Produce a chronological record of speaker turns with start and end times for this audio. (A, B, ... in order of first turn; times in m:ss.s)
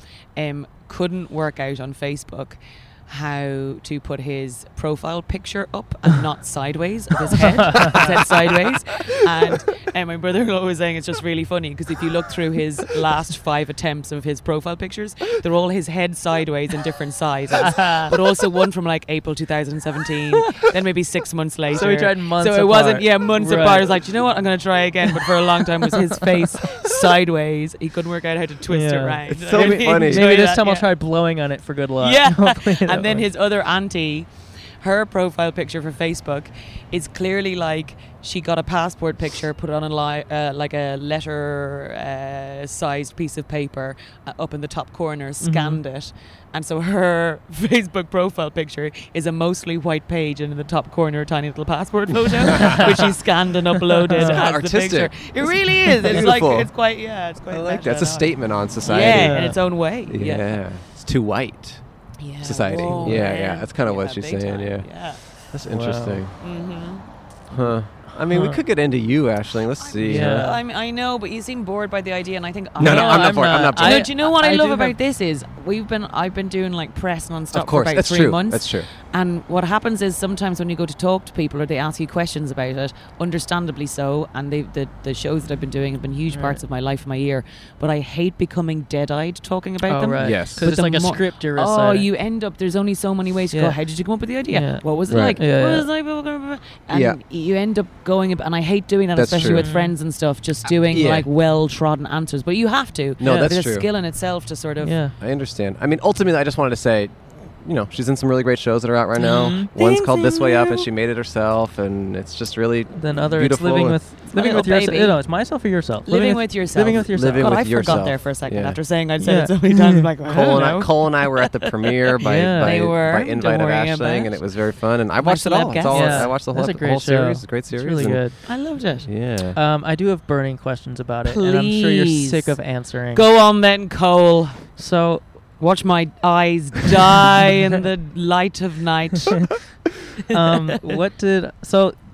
0:00.4-0:30.9 A
0:07.4-0:08.1 B
0:07.8-0:08.1 C
0:17.6-0:18.1 B
0:21.7-0:24.0 B
0:25.1-0:26.9 B
0:28.7-0:33.3 B
0:29.3-0:30.3 C
0:32.0-0:34.3 A
0:34.8-1:00.6 A
0:45.4-0:45.8 B
0:52.5-0:52.9 C
0:52.6-0:52.9 B
0:54.1-0:54.4 B
0:54.2-0:56.7 C
0:55.9-0:56.3 B
0:57.5-0:59.5 C
0:58.9-0:59.6 B
1:00.1-1:01.8 C
1:02.2-1:05.2 A
1:02.4-1:06.3 C
1:02.9-1:03.2 B
1:05.6-1:06.2 B
1:06.4-1:07.0 A
1:07.5-1:10.5 C
1:08.1-1:08.6 B
1:09.8-1:45.1 A
1:10.0-1:10.6 B
1:12.8-1:14.1 C
1:12.8-1:15.0 B
1:17.5-1:18.9 C
1:26.3-1:26.6 B
1:29.9-1:32.1 B
1:30.2-1:30.6 C
1:33.5-1:33.8 B
1:34.5-1:35.9 B
1:35.1-1:35.4 C
1:36.9-1:37.2 C
1:39.1-1:39.7 C
1:39.3-1:39.9 B
1:40.9-1:41.3 C
1:43.2-1:43.9 C
1:43.2-1:43.5 B
1:44.8-1:45.1 B
1:45.2-1:54.0 C
1:49.2-1:50.9 A
1:49.2-1:49.7 B
1:53.0-1:58.0 B
1:54.2-1:55.2 A
1:56.0-2:04.4 A
1:57.0-1:58.8 C
1:59.2-2:00.1 B
2:00.3-2:08.4 C
2:02.2-2:02.9 B
2:05.2-2:06.4 A
2:05.9-2:08.4 B
2:08.4-2:09.1 A
2:09.1-2:09.6 C
2:09.6-2:13.3 B
2:11.2-2:12.6 A
2:13.1-2:19.4 A
2:14.8-2:15.1 B
2:20.3-2:21.0 A
2:20.3-2:21.9 B